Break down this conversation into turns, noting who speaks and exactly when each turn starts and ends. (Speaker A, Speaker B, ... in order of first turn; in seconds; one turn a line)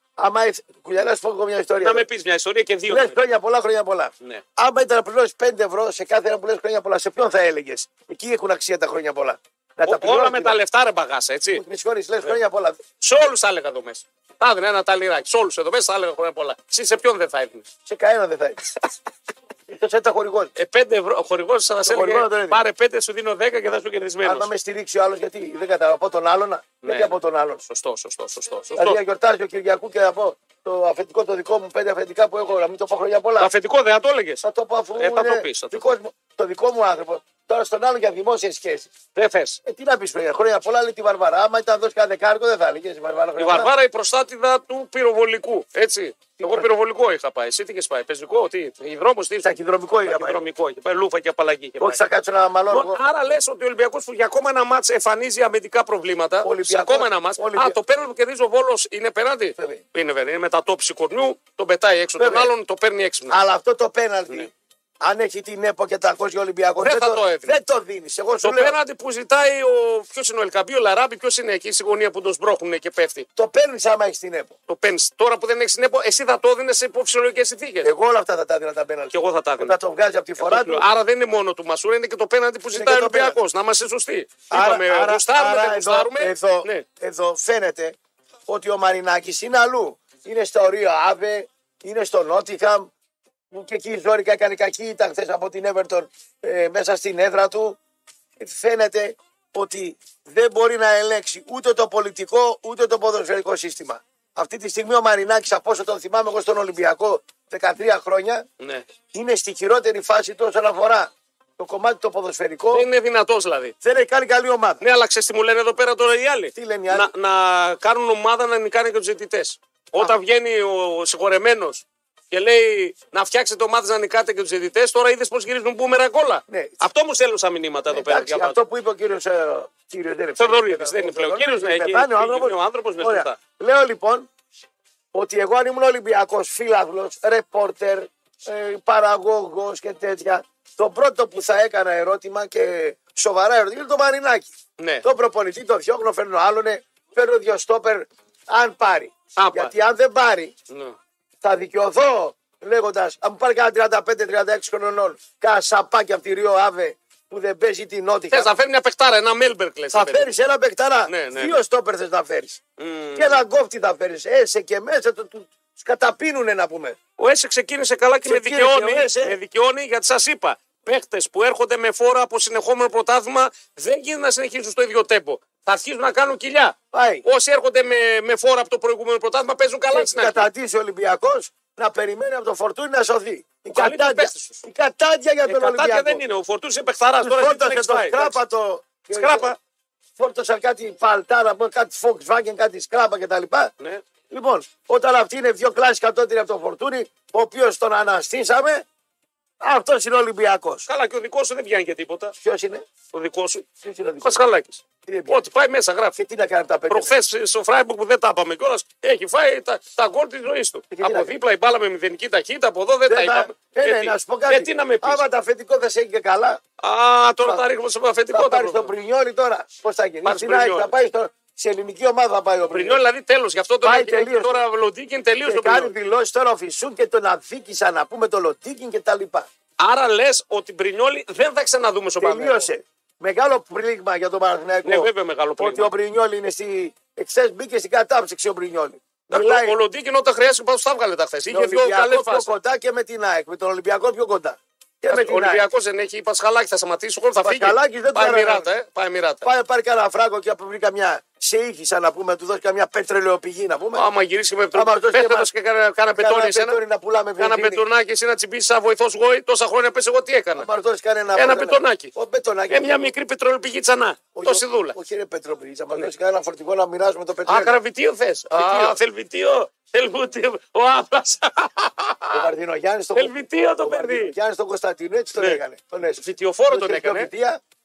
Speaker A: 0.2-2.1
Speaker B: 1.8-3.2
Speaker A: 2.9-10.6
Speaker B: 9.8-11.6
Speaker A: 11.5-12.8
Speaker B: 13.0-17.7
Speaker A: 17.9-18.8
Speaker A: 19.7-20.5
Speaker B: 20.6-24.5
Speaker A: 21.9-22.6
Speaker A: 24.2-27.6
Speaker B: 26.8-29.0
Speaker A: 28.8-33.5
Speaker B: 33.4-34.4
Speaker A: 34.4-38.9
Speaker B: 35.0-35.9
Speaker B: 39.1-39.6
Speaker A: 39.6-43.7
Speaker B: 43.4-52.0
Speaker A: 46.4-46.7
Speaker A: 49.4-50.4
Speaker A: 51.8-53.0
Speaker B: 52.7-63.4
Speaker A: 56.4-57.8
Speaker A: 59.6-59.8
Speaker A: 62.2-62.5
Speaker A: 63.3-68.8
Speaker B: 66.8-67.6
Speaker B: 68.4-73.3
Speaker A: 73.4-74.5
Speaker B: 74.7-77.9
Speaker A: 77.8-80.8
Speaker B: 79.1-79.8
Speaker B: 80.4-86.9
Speaker A: 82.7-83.4
Speaker A: 84.5-88.0
Speaker A: 88.5-92.9
Speaker A: 93.5-97.8
Speaker A: 98.4-108.5
Speaker B: 108.6-108.8
Speaker A: 109.1-112.9
Speaker B: 112.7-113.8
Speaker A: 113.8-114.8
Speaker B: 114.8-128.6
Speaker A: 116.5-117.1
Speaker A: 126.5-126.8
Speaker A: 127.9-134.3
Speaker B: 130.4-133.4
Speaker A: 135.1-144.5
Speaker B: 144.8-145.1
Speaker A: 145.0-150.5
Speaker B: 149.4-149.7
Speaker B: 150.7-151.0
Speaker A: 151.4-158.5
Speaker B: 158.3-160.3
Speaker A: 159.9-162.6
Speaker B: 161.1-161.6
Speaker B: 162.8-163.4
Speaker A: 163.2-167.0
Speaker B: 167.2-180.5
Speaker A: 168.2-169.4
Speaker A: 176.9-177.2
Speaker A: 179.9-186.2
Speaker B: 183.7-184.7
Speaker B: 185.4-188.4
Speaker A: 187.2-189.5
Speaker B: 189.1-189.6
Speaker A: 190.2-193.7
Speaker A: 194.3-198.8
Speaker A: 199.6-200.9
Speaker B: 200.9-202.3
Speaker A: 202.4-202.8
Speaker B: 203.1-203.7
Speaker A: 203.8-204.4
Speaker B: 204.2-206.2
Speaker A: 205.1-205.4
Speaker A: 206.2-207.1
Speaker B: 206.9-215.2
Speaker A: 210.9-211.3
Speaker A: 213.1-216.6
Speaker B: 216.8-218.9
Speaker A: 218.3-223.0
Speaker B: 220.2-220.9
Speaker B: 222.7-225.9
Speaker A: 223.8-224.6
Speaker A: 225.4-229.5
Speaker B: 229.8-232.7
Speaker A: 232.2-239.8
Speaker B: 234.8-235.9
Speaker B: 239.3-242.5
Speaker A: 241.5-245.7
Speaker B: 245.1-249.5
Speaker A: 247.4-248.7
Speaker A: 249.4-254.1
Speaker B: 253.9-256.8
Speaker A: 254.7-255.5
Speaker A: 256.2-257.8
Speaker B: 257.4-260.7
Speaker A: 260.6-263.1
Speaker B: 261.4-262.1
Speaker B: 262.7-265.0
Speaker A: 264.3-267.8
Speaker B: 267.5-272.5
Speaker A: 268.5-269.0
Speaker A: 272.3-277.6
Speaker B: 273.2-274.3
Speaker B: 275.4-275.6
Speaker B: 276.2-277.3